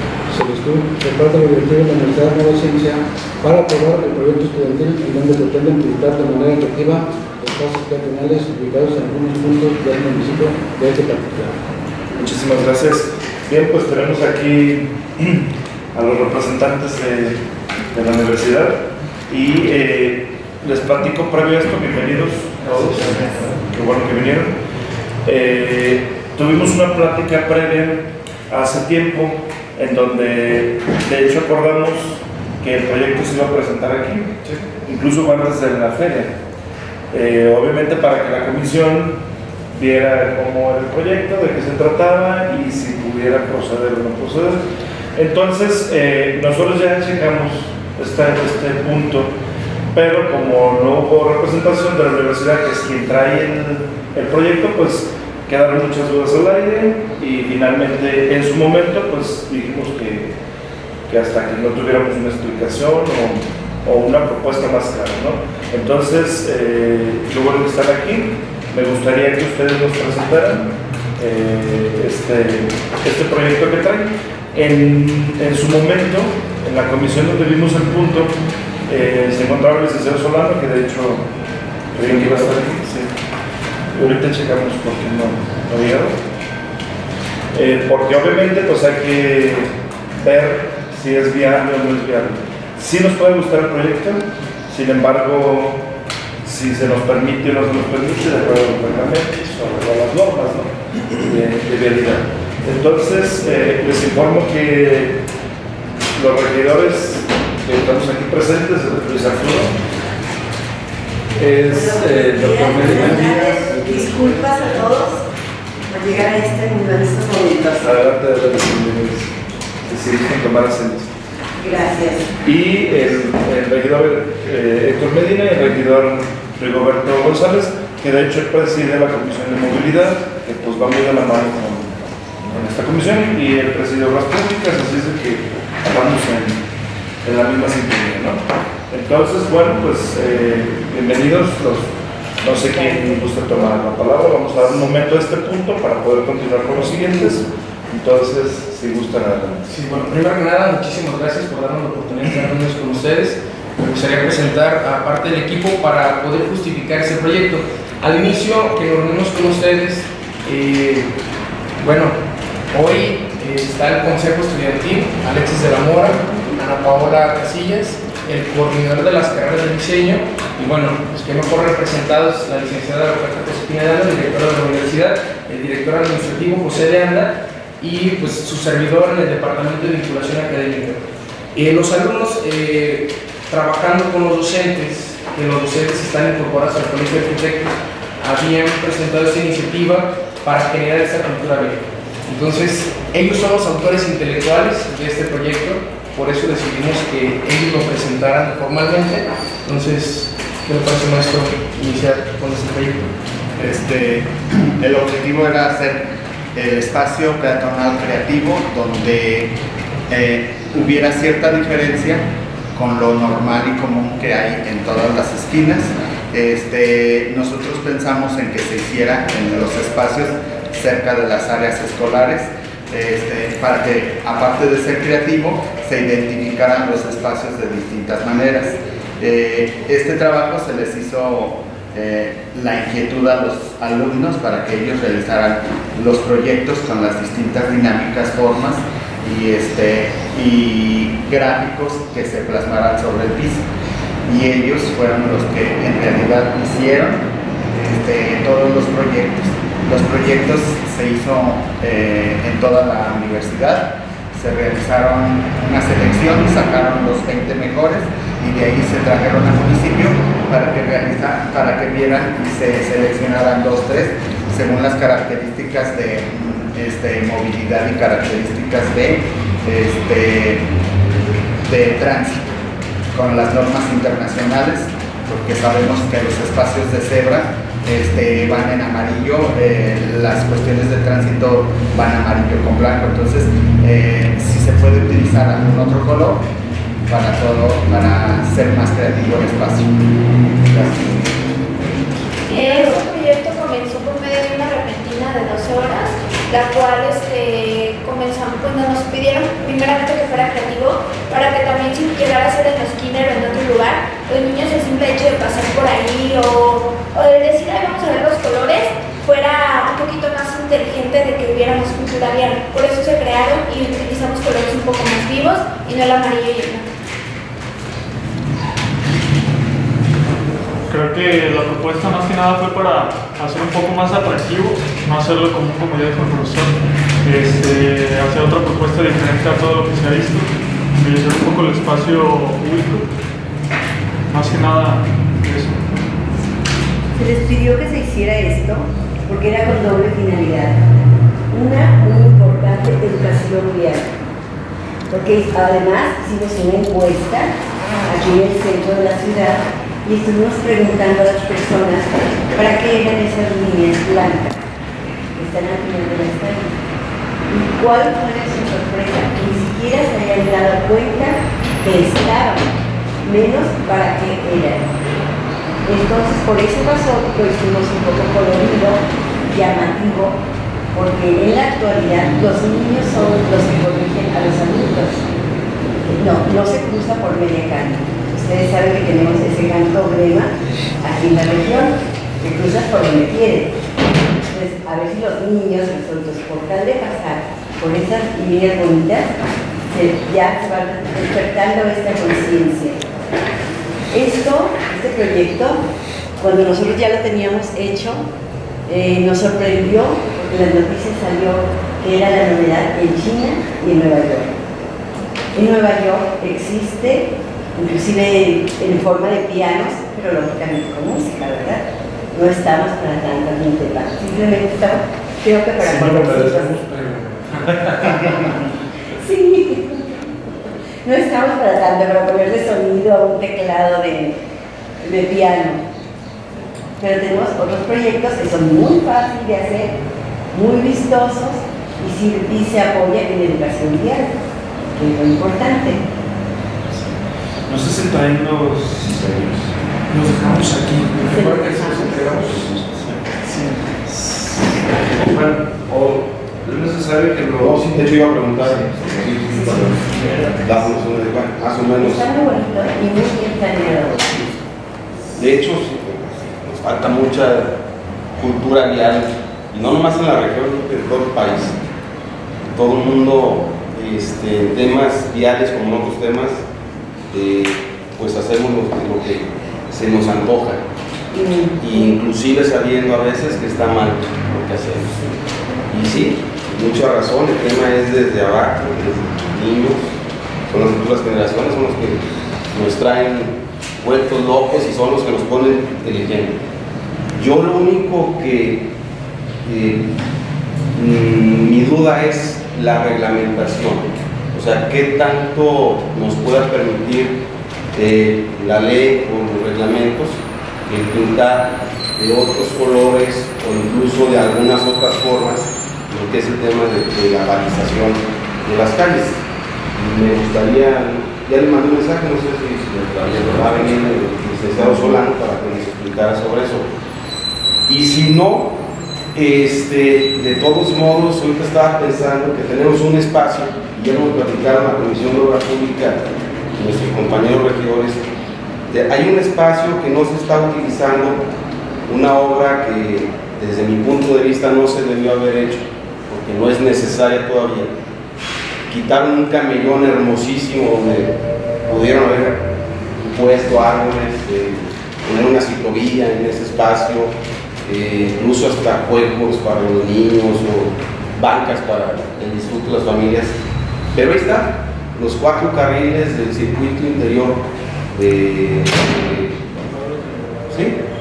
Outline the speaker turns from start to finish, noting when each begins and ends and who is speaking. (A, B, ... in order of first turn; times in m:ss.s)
0:00.3-0:11.6 A
0:12.1-0:17.4 B
0:17.9-0:24.5 B
0:25.2-0:34.3 B
0:34.8-0:36.3 B
0:37.1-0:39.2 B
0:39.7-0:44.6 B
0:45.1-0:49.3 B
0:49.9-1:00.3 B
1:01.1-1:18.3 B
1:18.9-1:21.2 B
1:21.9-1:23.1 B
1:22.1-1:22.6 C
1:23.9-1:26.2 B
1:27.5-1:35.8 B
1:36.4-1:45.2 B
1:46.1-1:49.7 B
1:51.4-1:54.1 B
1:51.6-1:55.2 D
1:55.9-1:58.0 D
1:57.8-1:59.3 B
1:59.9-2:01.1 B
2:01.6-2:02.3 D
2:02.4-2:12.0 B
2:12.5-2:16.6 B
2:17.2-2:18.4 B
2:18.9-2:29.6 B
2:29.6-2:41.1 C
2:41.8-2:42.2 C
2:42.7-3:23.1 C
3:23.6-3:29.5 E
3:30.1-4:03.6 E
4:04.3-4:30.7 E
4:31.6-4:32.5 E
4:33.1-4:46.4 E
4:47.1-4:51.4 E
4:52.5-5:16.8 F
5:20.9-5:33.1 G
5:34.3-5:35.9 G
5:37.2-5:40.8 D
5:41.5-5:44.1 D
5:45.1-5:47.5 D
5:48.0-5:54.6 D
5:55.4-5:56.8 D
5:57.5-6:02.7 D
6:03.2-6:04.9 D
6:05.8-6:10.4 D
6:10.9-6:15.2 D
6:16.1-6:23.7 D
6:24.5-6:29.3 D
6:29.9-6:33.0 D
6:34.1-6:35.8 D
6:36.4-6:38.2 D
6:38.9-6:44.5 D
6:45.5-6:51.8 D
6:52.3-6:56.8 D
6:55.8-6:58.5 B
6:59.2-7:00.2 D
7:01.0-7:04.4 D
7:05.0-7:05.8 D
7:07.0-7:09.9 D
7:10.5-7:14.4 D
7:14.9-7:16.0 D
7:16.9-7:17.1 B
7:17.7-7:19.7 B
7:20.1-7:22.7 C
7:20.3-7:20.9 B
7:21.3-7:22.6 D
7:22.6-7:23.2 B
7:23.4-7:23.8 C
7:24.1-7:30.6 B
7:27.6-7:29.9 H
7:29.4-7:30.0 D
7:30.6-7:32.2 H
7:32.0-7:34.4 D
7:35.4-7:37.7 H
7:38.4-7:41.8 H
7:42.7-7:46.6 H
7:47.3-7:50.8 H
7:51.3-7:52.1 D
7:51.8-7:55.2 H
7:55.9-8:00.1 H
8:00.7-8:06.5 H
8:07.3-8:08.9 H
8:09.6-8:10.1 H
8:10.9-8:17.4 H
8:17.9-8:29.4 H
8:29.9-8:36.9 H
8:37.9-8:38.8 H
8:39.3-8:48.3 H
8:48.9-8:51.5 H
8:52.1-8:58.0 H
8:58.9-9:01.3 H
9:01.8-9:02.6 H
9:03.2-9:13.6 H
9:14.1-9:19.8 H
9:20.7-9:21.0 B